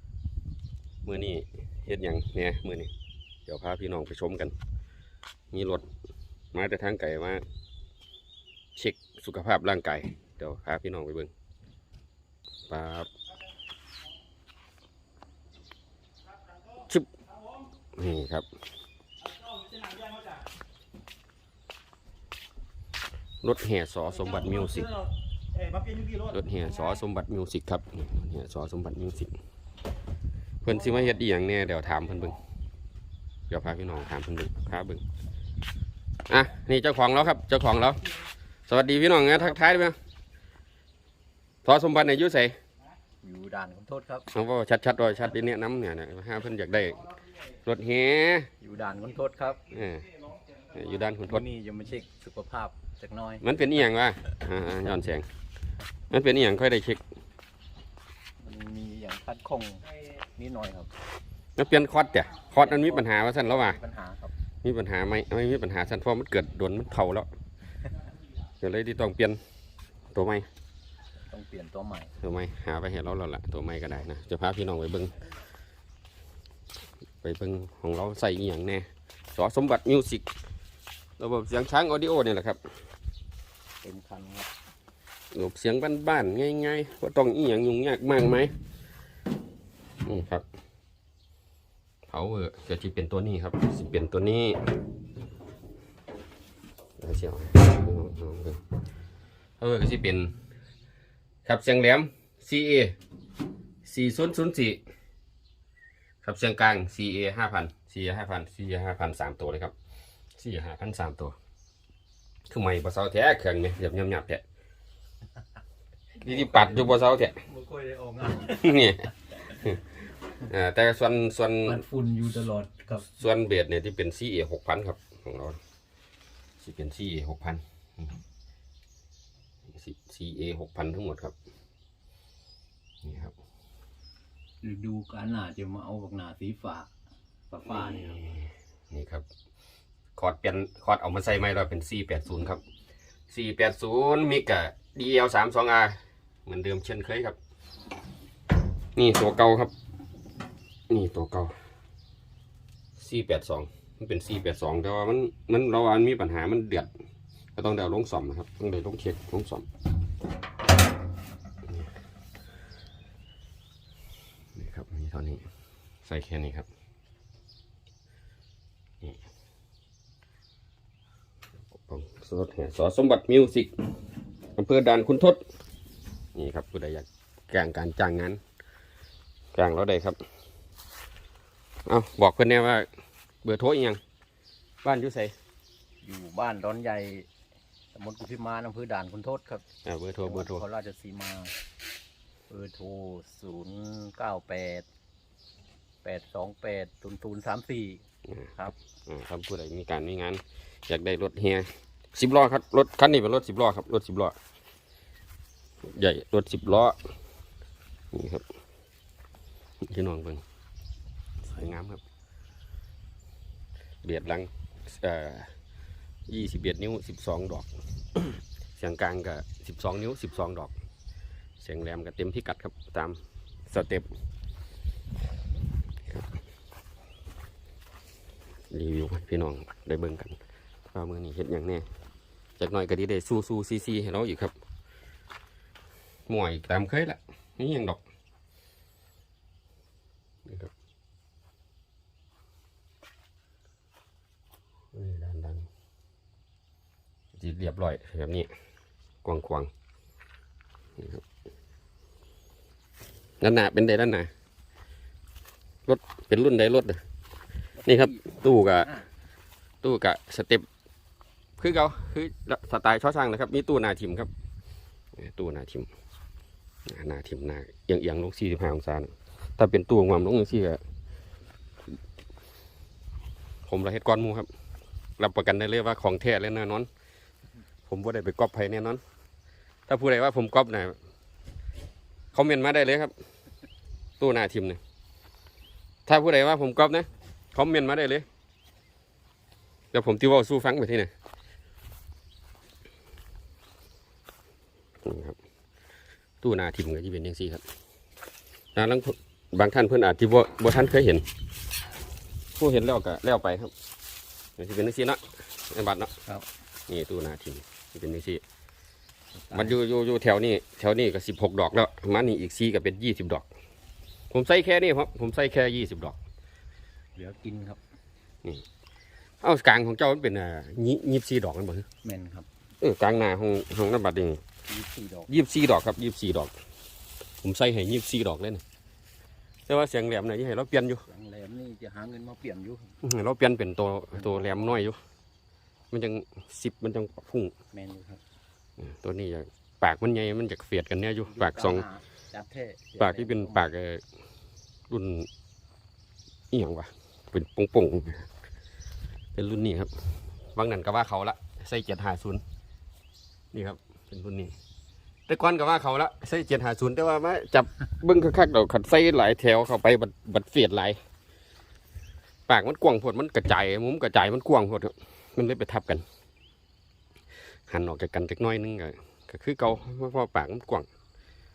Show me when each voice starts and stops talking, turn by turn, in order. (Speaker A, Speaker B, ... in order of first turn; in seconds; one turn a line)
Speaker A: 1.1-2.9
Speaker A: 3.5-4.5
Speaker A: 5.5-5.9
Speaker A: 6.5-7.4
Speaker A: 8.8-11.3
Speaker A: 12.7-13.1
Speaker A: 16.8-17.1
Speaker A: 17.9-18.5
Speaker A: 23.4-25.0
Speaker A: 26.1-29.4
Speaker A: 30.6-32.4
Speaker A: 33.5-35.0
Speaker A: 36.3-38.0
Speaker A: 38.7-40.0
Speaker A: 41.6-42.6
Speaker B: 43.2-44.3
Speaker A: 44.3-47.1
Speaker A: 47.6-48.5
Speaker B: 48.6-49.7
Speaker A: 49.7-50.1
Speaker A: 50.7-51.5
Speaker B: 51.4-53.4
Speaker A: 53.4-55.3
Speaker A: 56.1-57.0
Speaker B: 58.5-60.9
Speaker A: 61.6-63.8
Speaker B: 62.6-63.1
Speaker B: 63.6-64.3
Speaker A: 64.6-67.3
Speaker A: 68.6-69.4
Speaker A: 70.1-70.5
Speaker B: 71.3-72.2
Speaker A: 72.2-75.2
Speaker A: 77.2-80.2
Speaker A: 81.2-82.6
Speaker B: 83.8-84.5
Speaker A: 85.3-88.5
Speaker A: 90.0-90.4
Speaker A: 92.1-94.7
Speaker A: 97.0-98.6
Speaker A: 99.6-100.3
Speaker A: 101.5-103.0
Speaker A: 103.8-104.8
Speaker A: 106.2-109.7
Speaker A: 110.4-111.4
Speaker A: 112.5-114.4
Speaker A: 116.2-117.5
Speaker B: 116.3-116.9
Speaker B: 117.4-118.7
Speaker A: 118.5-119.8
Speaker A: 120.4-121.8
Speaker B: 121.7-123.0
Speaker A: 123.0-125.6
Speaker A: 126.6-128.2
Speaker A: 129.7-131.3
Speaker A: 133.0-133.3
Speaker B: 134.6-136.9
Speaker B: 137.5-138.2
Speaker A: 137.7-139.3
Speaker A: 140.2-142.6
Speaker A: 143.3-147.4
Speaker A: 149.0-149.7
Speaker A: 150.9-151.6
Speaker A: 153.0-156.9
Speaker A: 157.6-159.7
Speaker A: 164.6-165.4
Speaker A: 166.1-166.7
Speaker A: 171.8-173.7
Speaker A: 174.6-175.4
Speaker A: 176.3-178.4
Speaker A: 179.6-180.2
Speaker A: 181.9-182.9
Speaker A: 183.4-184.0
Speaker A: 184.8-185.3
Speaker B: 186.0-187.3
Speaker B: 187.9-189.6
Speaker A: 189.8-190.6
Speaker B: 190.3-191.5
Speaker B: 192.5-194.9
Speaker B: 196.0-198.0
Speaker A: 198.3-204.4
Speaker A: 205.8-207.0
Speaker A: 208.1-208.4
Speaker A: 209.9-210.4
Speaker A: 211.5-212.0
Speaker A: 214.0-215.5
Speaker A: 216.3-220.7
Speaker A: 221.6-224.1
Speaker A: 228.7-230.4
Speaker A: 230.9-231.9
Speaker A: 232.6-234.5
Speaker A: 236.3-238.0
Speaker A: 240.4-240.7
Speaker A: 244.9-245.7
Speaker A: 247.3-248.5
Speaker A: 249.2-249.7
Speaker A: 251.0-251.2
Speaker A: 253.4-254.3
Speaker A: 255.9-257.0
Speaker A: 257.9-258.9
Speaker A: 259.8-260.7
Speaker A: 261.6-264.3
Speaker A: 265.1-265.9
Speaker A: 266.9-270.8
Speaker A: 273.7-274.5
Speaker A: 275.2-276.9
Speaker A: 277.9-279.0
Speaker A: 279.9-281.0
Speaker A: 282.3-283.1
Speaker A: 284.2-284.8
Speaker A: 286.1-288.3
Speaker A: 289.9-291.1
Speaker A: 295.0-295.4
Speaker A: 296.4-297.6
Speaker A: 298.8-301.3
Speaker A: 302.6-303.7
Speaker A: 304.6-306.2
Speaker A: 306.9-308.4
Speaker A: 309.5-313.5
Speaker A: 314.3-316.2
Speaker B: 317.2-317.8
Speaker A: 319.4-321.9
Speaker B: 322.0-322.5
Speaker A: 322.8-324.4
Speaker B: 324.7-325.3
Speaker A: 325.3-326.5
Speaker A: 327.4-328.6
Speaker A: 329.7-331.1
Speaker B: 331.1-332.9
Speaker A: 333.0-335.0
Speaker B: 334.1-334.6
Speaker A: 335.9-337.6
Speaker B: 337.7-338.2
Speaker A: 338.8-341.9
Speaker B: 341.3-343.6
Speaker A: 343.0-344.0
Speaker A: 344.9-345.3
Speaker A: 346.5-348.3
Speaker A: 349.4-349.9
Speaker A: 350.5-352.4
Speaker A: 353.5-354.5
Speaker A: 355.3-361.0
Speaker A: 362.5-366.1
Speaker A: 367.7-370.9